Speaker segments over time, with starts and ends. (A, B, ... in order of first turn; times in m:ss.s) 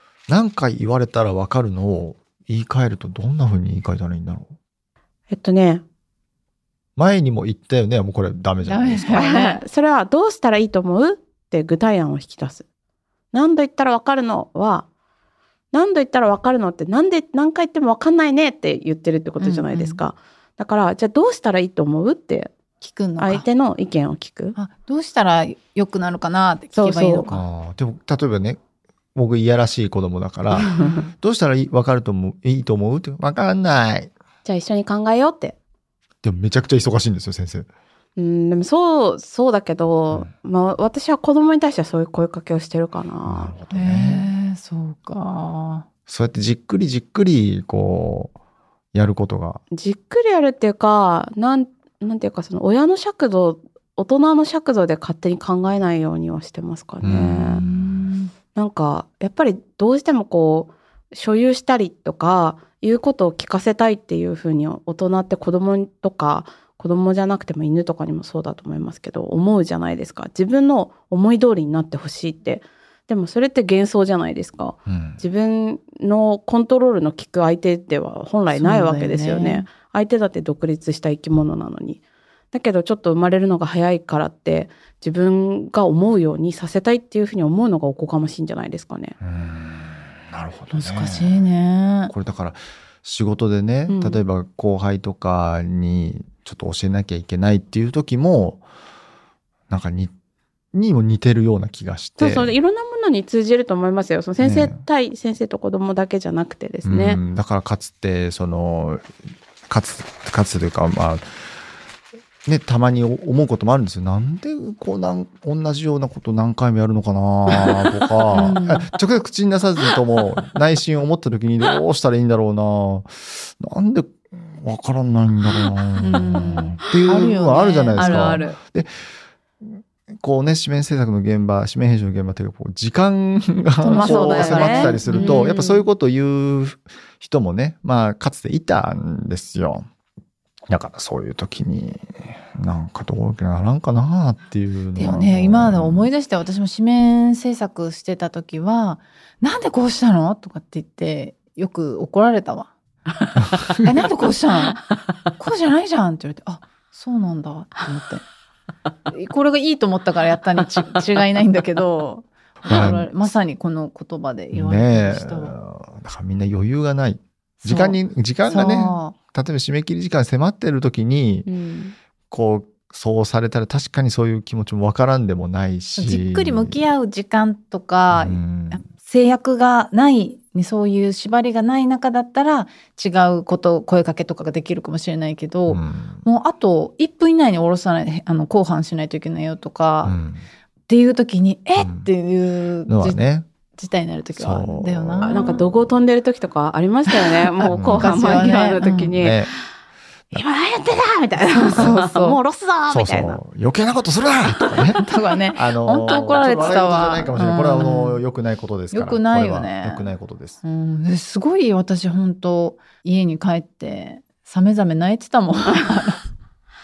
0:00.3-0:04.5 A
0:05.3-0:05.8 B
0:07.0-0:09.2 A
0:08.6-0:09.6 C
0:09.1-0:12.6 B
0:13.3-0:14.9 B
0:15.7-0:22.6 B
0:19.4-0:20.0 C
0:22.8-0:23.4 C
0:23.2-0:24.6 B
0:24.5-0:27.4 C
0:26.7-0:27.3 B
0:27.3-0:28.6 A
0:29.1-0:34.1 A
0:30.5-0:31.1 B
0:30.8-0:31.0 C
0:34.4-0:35.6 B
0:36.2-0:37.7 A
0:38.2-0:43.5 B
0:43.2-0:44.2 A
0:43.7-0:45.8 C
0:46.1-0:48.3 A
0:48.9-0:49.6 A
0:49.7-0:57.6 B
0:57.0-0:58.1 A
0:57.6-0:58.3 C
0:58.5-1:29.2 B
1:14.9-1:15.2 A
1:18.5-1:19.7 C
1:29.2-1:31.5 A
1:30.7-1:32.1 C
1:32.1-1:38.6 A
1:33.9-1:34.2 B
1:39.7-1:40.1 A
1:40.7-1:42.5 A
1:42.2-1:47.2 B
1:44.4-1:44.8 A
1:46.8-1:49.1 A
1:49.7-1:51.3 A
1:52.4-2:09.0 A
1:57.5-1:57.8 B
1:58.3-1:58.8 B
1:58.3-1:58.7 C
2:06.0-2:08.5 C
2:06.0-2:08.6 B
2:09.6-2:19.9 A
2:13.8-2:15.5 C
2:13.9-2:15.8 B
2:20.7-2:26.1 A
2:25.0-2:32.7 C
2:33.4-2:33.8 A
2:33.8-2:34.8 C
2:35.4-2:38.2 C
2:39.1-2:45.6 C
2:42.7-2:43.3 A
2:44.5-2:51.5 A
2:47.6-2:49.1 C
2:51.4-2:51.9 B
2:52.3-2:56.8 A
2:56.0-3:10.2 C
2:58.1-2:58.8 A
3:05.7-3:06.2 A
3:10.0-3:10.4 A
3:10.9-3:13.2 C
3:11.8-3:12.1 A
3:12.8-3:13.4 A
3:13.8-3:15.6 C
3:14.3-3:15.4 A
3:15.2-3:19.7 B
3:17.5-3:19.2 C
3:17.7-3:18.5 A
3:19.1-3:19.5 A
3:20.3-3:23.4 B
3:21.5-3:22.4 C
3:22.9-3:30.6 A
3:24.7-3:25.0 B
3:25.0-3:28.2 C
3:26.0-3:27.1 B
3:28.9-3:30.1 C
3:30.6-3:36.2 C